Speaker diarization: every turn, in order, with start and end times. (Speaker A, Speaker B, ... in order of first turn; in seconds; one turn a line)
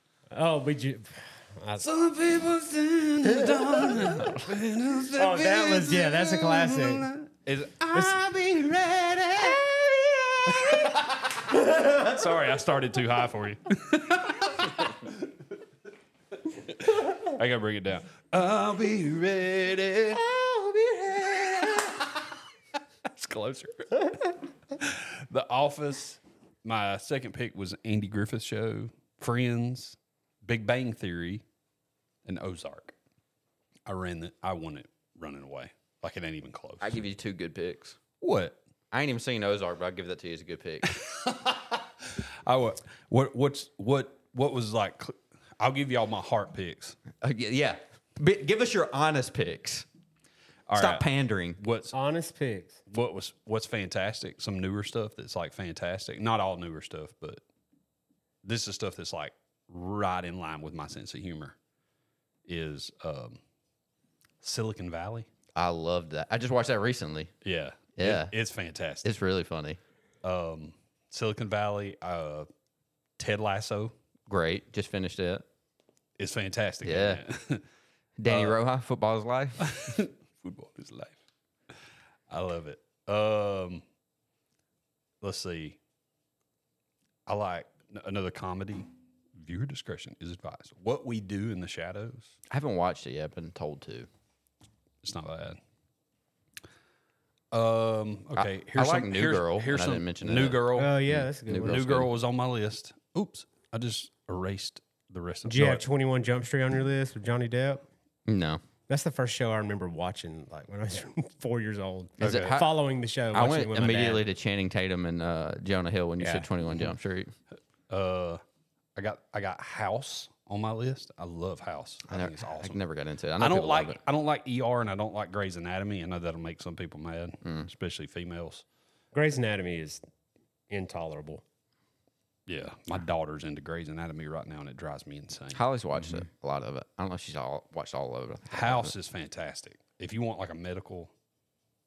Speaker A: 0.3-1.9
Speaker B: 1.8-9.7
Speaker A: 3.3-4.4
Speaker A: 5.1-7.1
Speaker A: 9.9-10.4
Speaker B: 10.5-15.2
Speaker B: 16.5-20.3
Speaker A: 20.3-21.8
Speaker B: 21.1-22.1
Speaker B: 23.1-31.4
Speaker B: 32.2-32.9
Speaker B: 33.9-37.0
Speaker C: 36.8-38.0
Speaker B: 38.2-38.6
Speaker C: 38.9-40.9
Speaker B: 40.8-47.0
Speaker C: 47.2-49.9
Speaker B: 50.7-51.1
Speaker C: 50.7-51.6
Speaker B: 51.6-51.9
Speaker A: 51.9-52.8
Speaker B: 52.9-57.4
Speaker B: 58.4-61.6
Speaker B: 62.5-63.4
Speaker B: 64.4-65.3
Speaker C: 65.6-67.3
Speaker B: 67.4-69.1
Speaker C: 68.0-68.3
Speaker C: 69.0-69.8
Speaker B: 70.2-72.5
Speaker B: 73.2-73.9
Speaker C: 74.3-75.5
Speaker B: 76.2-77.6
Speaker C: 76.8-77.2
Speaker C: 78.2-79.9
Speaker B: 78.3-78.6
Speaker B: 79.6-81.2
Speaker B: 82.3-83.8
Speaker B: 85.2-85.8
Speaker B: 87.3-92.3
Speaker C: 92.5-94.1
Speaker B: 95.0-95.6
Speaker B: 97.5-105.8
Speaker C: 98.4-102.1
Speaker A: 100.8-101.8
Speaker A: 105.5-107.8
Speaker C: 108.3-108.6
Speaker A: 108.9-114.2
Speaker C: 112.2-112.7
Speaker C: 113.3-117.3
Speaker A: 116.2-116.5
Speaker B: 117.9-118.4
Speaker B: 119.0-122.8
Speaker C: 122.1-124.0
Speaker B: 123.4-128.6
Speaker A: 129.1-130.0
Speaker A: 130.7-131.4
Speaker B: 132.5-135.6
Speaker C: 135.5-138.9
Speaker B: 138.5-141.1